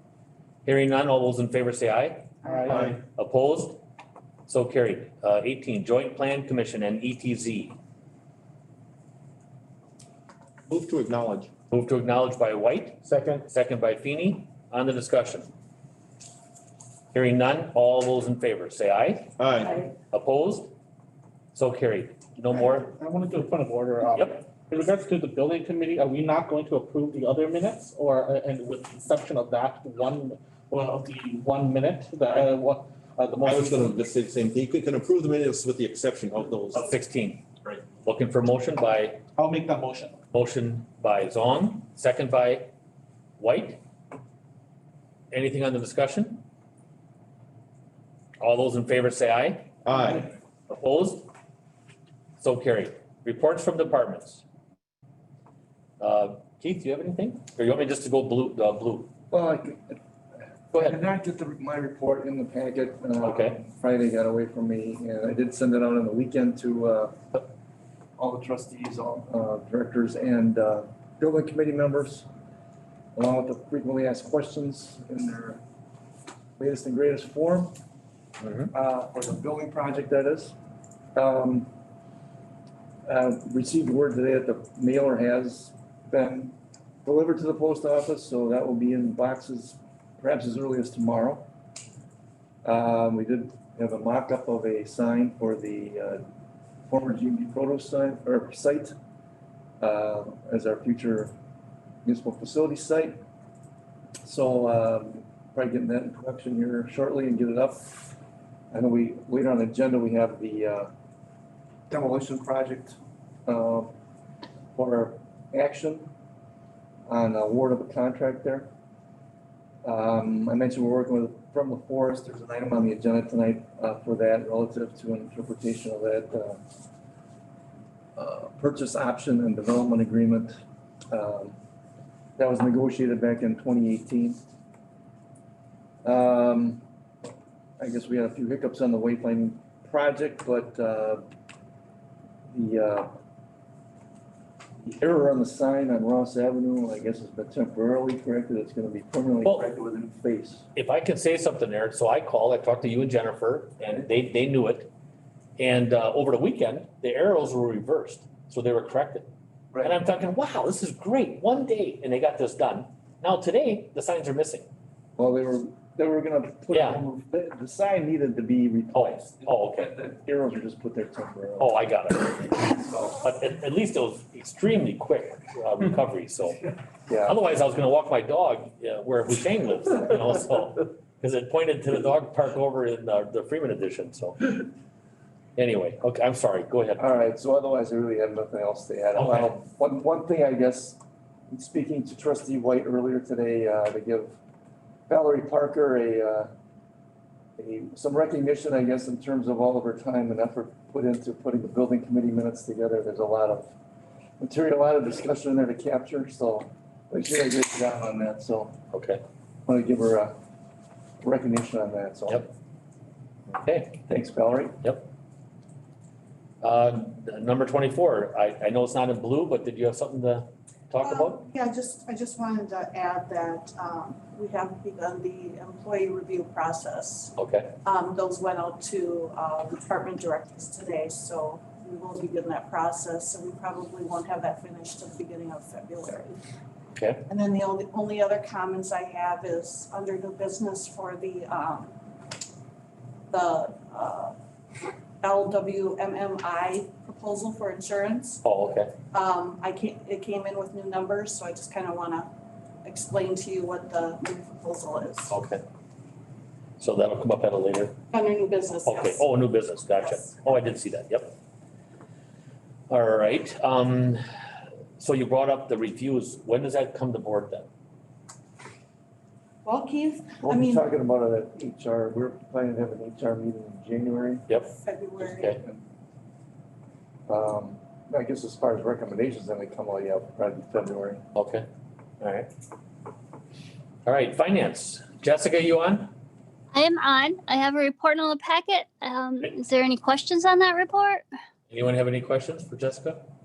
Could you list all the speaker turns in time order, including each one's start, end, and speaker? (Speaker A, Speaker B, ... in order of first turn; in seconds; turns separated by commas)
Speaker A: 0.7-3.8, Speaker B: 2.5-2.8, Speaker A: 4.5-7.8, Speaker C: 10.7-11.5, Speaker A: 11.7-15.5, Speaker B: 13.1-13.4, Speaker A: 17.1-19.3, Speaker C: 19.4-19.8, Speaker A: 20.1-20.7, Speaker A: 21.6-22.9, Speaker B: 22.5-34.0, Speaker A: 24.2-24.4, Speaker C: 33.4-36.9, Speaker A: 36.7-39.2, Speaker B: 39.4-40.2, Speaker A: 40.3-42.7, Speaker A: 43.4-43.8, Speaker A: 45.3-46.4, Speaker A: 48.4-49.8, Speaker C: 49.9-50.3, Speaker A: 50.7-51.3, Speaker A: 52.4-54.4, Speaker A: 56.0-59.1, Speaker D: 59.3-60.0, Speaker A: 60.7-61.0, Speaker D: 60.7-67.2, Speaker A: 63.2-63.6, Speaker D: 68.2-72.3, Speaker D: 73.2-75.6, Speaker D: 76.6-77.7, Speaker D: 78.7-80.5, Speaker D: 81.2-81.7, Speaker D: 83.1-86.5, Speaker D: 87.0-91.5, Speaker D: 92.6-96.2, Speaker D: 96.9-99.0, Speaker D: 99.8-101.3, Speaker D: 102.0-103.2, Speaker D: 104.2-108.2, Speaker D: 108.7-110.9, Speaker D: 111.9-113.9, Speaker D: 114.8-116.1, Speaker D: 117.1-118.7, Speaker D: 119.8-126.6, Speaker D: 128.2-130.6, Speaker D: 131.1-131.6, Speaker D: 132.4-134.4, Speaker D: 136.0-136.8, Speaker D: 137.8-141.2, Speaker D: 142.5-143.1, Speaker D: 144.8-150.7, Speaker A: 150.8-154.9, Speaker A: 155.6-159.3, Speaker D: 159.7-160.0, Speaker A: 159.8-164.7, Speaker D: 165.2-171.7, Speaker A: 166.7-167.0, Speaker A: 168.9-169.9, Speaker A: 171.6-176.6, Speaker D: 177.1-177.4, Speaker A: 177.2-184.5, Speaker A: 185.6-187.1, Speaker D: 187.0-191.0, Speaker A: 189.2-189.6, Speaker D: 191.5-194.4, Speaker D: 195.1-196.5, Speaker D: 197.6-203.7, Speaker D: 204.4-208.8, Speaker A: 208.9-209.2, Speaker D: 209.7-210.3, Speaker D: 211.2-212.5, Speaker A: 213.5-214.0, Speaker D: 214.1-214.8, Speaker A: 216.6-221.4, Speaker E: 221.0-236.4, Speaker A: 227.4-227.7, Speaker A: 236.9-237.2, Speaker E: 237.3-242.0, Speaker E: 243.3-244.3, Speaker E: 245.2-248.4, Speaker A: 248.4-248.9, Speaker E: 249.1-252.3, Speaker E: 252.8-255.3, Speaker A: 255.3-255.6, Speaker A: 256.8-258.0, Speaker E: 258.1-259.2, Speaker A: 258.9-261.4, Speaker A: 262.9-264.2, Speaker A: 265.0-267.7, Speaker E: 269.6-270.9, Speaker D: 270.4-274.5, Speaker A: 274.5-275.6, Speaker E: 274.7-275.5, Speaker D: 277.3-281.2, Speaker A: 281.3-281.7, Speaker A: 282.2-282.5, Speaker A: 284.1-286.1, Speaker F: 286.7-291.2, Speaker A: 291.7-293.2